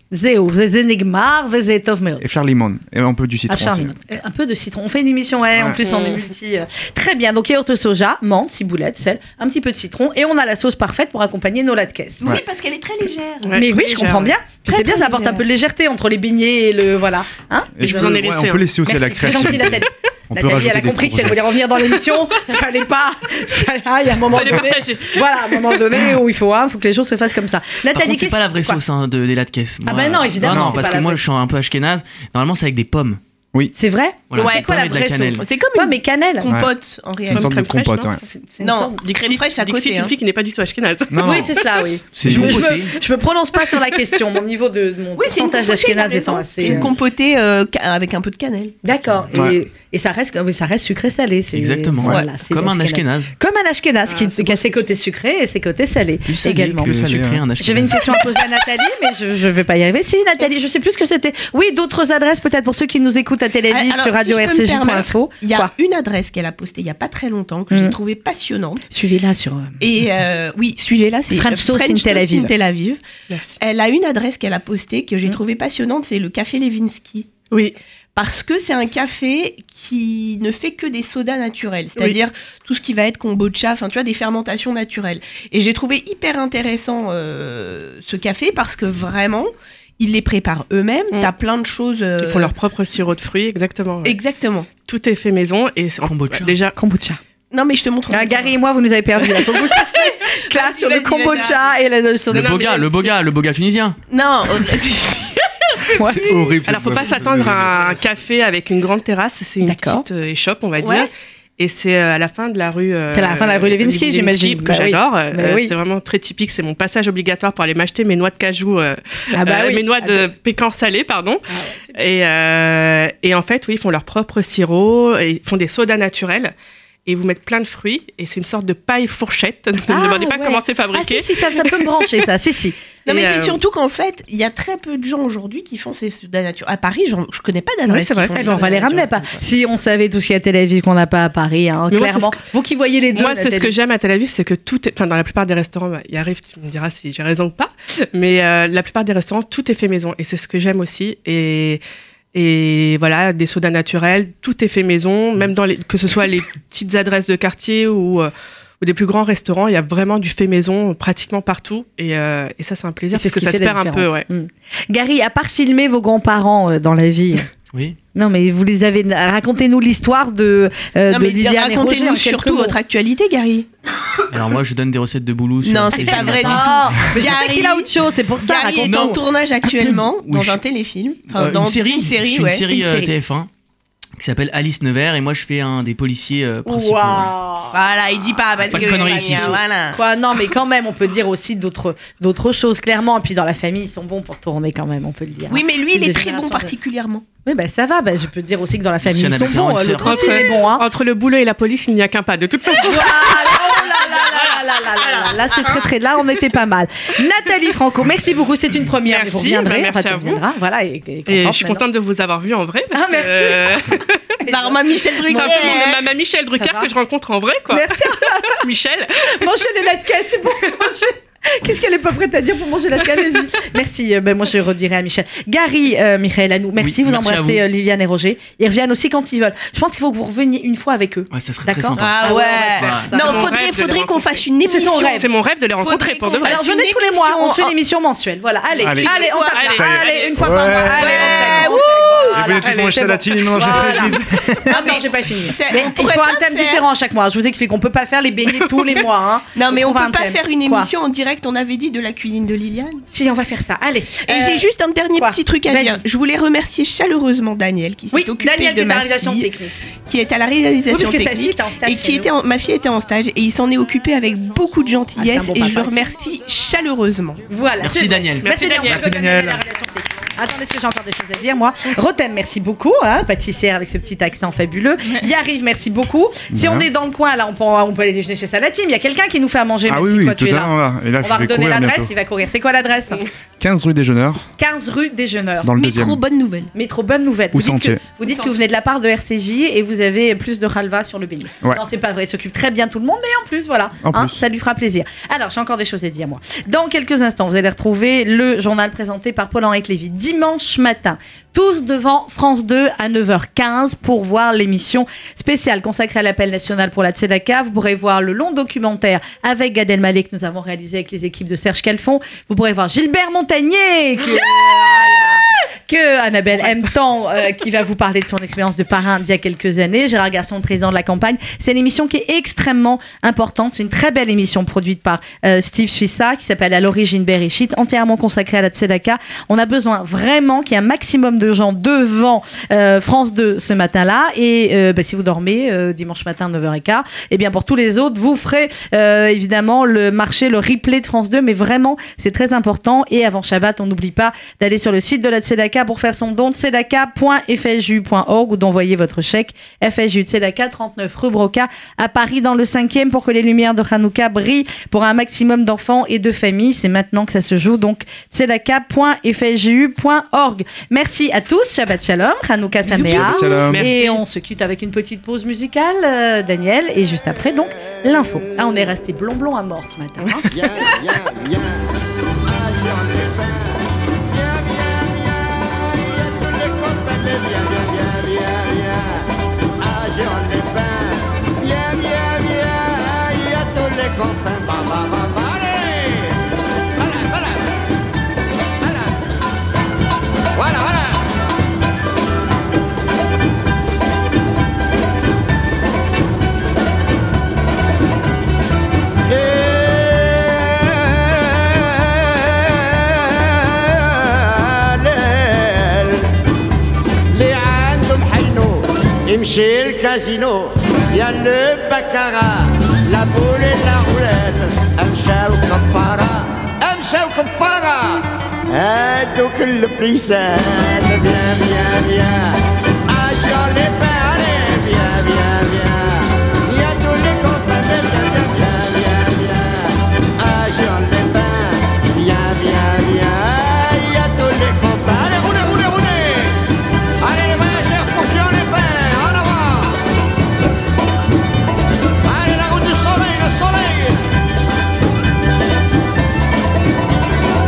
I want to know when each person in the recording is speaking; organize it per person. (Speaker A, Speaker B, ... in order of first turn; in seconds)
Speaker A: 0.1-2.3, 3.5-12.3, 13.5-18.2, 18.8-28.8, 29.9-31.2, 33.8-36.5, 38.2-39.0, 41.2-46.9, 48.8-57.0, 57.6-65.7, 67.7-68.0, 68.9-69.7, 71.3-72.5, 96.8-97.2, 98.1-102.8, 105.9-106.4, 109.6-110.1, 113.1-115.8, 119.3-120.3, 121.5-122.0, 129.8-132.8, 138.3-143.7, 163.1-167.5, 168.2-172.8, 175.9-179.2, 182.7-183.1, 186.7-187.8, 189.0-189.4, 189.9-196.7, 197.4-200.9, 202.7-211.8, 212.9-215.8, 216.6-216.9, 217.7-218.6, 219.2-233.5, 234.7-235.3, 236.4-250.9, 253.1-254.7, 255.2-256.0, 258.1-259.8, 260.9-262.3, 265.2-266.0, 267.5-283.3, 284.6-285.7, 286.7-370.5
Speaker B: 2.2-4.0, 5.5-5.8, 17.8-21.5, 30.4-30.9, 36.5-36.7, 37.3-38.2, 41.1-41.5, 42.2-42.7, 49.3-49.6, 56.8-57.5, 106.0-108.1, 238.8-239.1, 239.8-241.1, 242.3-244.8, 268.9-269.6, 276.5-276.9, 279.9-282.1, 283.6-284.5, 285.6-286.2, 287.5-288.0, 294.0-294.4, 362.9-363.9
Speaker C: 5.8-6.2, 13.4-14.4, 17.8-18.7, 24.3-26.1, 37.2-38.2, 39.0-41.6, 54.1-54.9, 73.3-73.6, 77.5-77.8, 92.2-94.2, 94.8-96.8, 102.3-103.1, 106.6-121.4, 121.9-126.5, 127.1-132.1, 133.1-133.6, 137.9-138.8, 141.9-142.4, 143.2-151.8, 152.3-164.3, 200.0-204.6, 209.1-210.4, 211.3-214.2, 215.2-219.5, 232.5-234.5, 235.0-236.7, 239.1-241.5, 242.6-243.0, 243.5-244.1, 268.4-269.1, 362.9-364.2
Speaker D: 12.2-13.6, 14.7-15.4, 34.3-34.7, 35.4-37.9, 38.6-40.1, 45.2-48.8, 63.7-68.8, 69.8-73.0, 73.6-77.3, 78.2-92.5, 94.0-94.7, 97.5-98.5, 99.9-101.7, 104.1-105.5, 110.8-111.1, 133.1-139.4, 171.1-173.7, 175.6-182.7, 187.7-190.0, 195.5-197.2, 214.5-216.0, 232.0-237.7, 238.8-239.8, 241.0-242.3, 244.7-246.8, 249.6-253.0, 254.3-259.5, 260.1-267.4, 285.8-286.7
Speaker E: 27.9-33.2, 34.3-35.5, 42.1-43.0, 51.5-53.3, 56.3-58.3, 96.0-96.6, 102.3-104.0, 174.3-177.1, 178.8-179.2, 179.8-180.6, 181.3-183.5, 184.2-187.3, 188.7-189.6, 199.0-200.3, 226.8-227.6, 231.3-233.4, 267.8-268.5
Speaker F: 370.5-371.9, 372.4-379.3, 379.8-387.8, 388.8-389.3, 390.5-391.3, 399.3-406.3, 407.3-436.7, 437.2-440.1, 442.2-444.2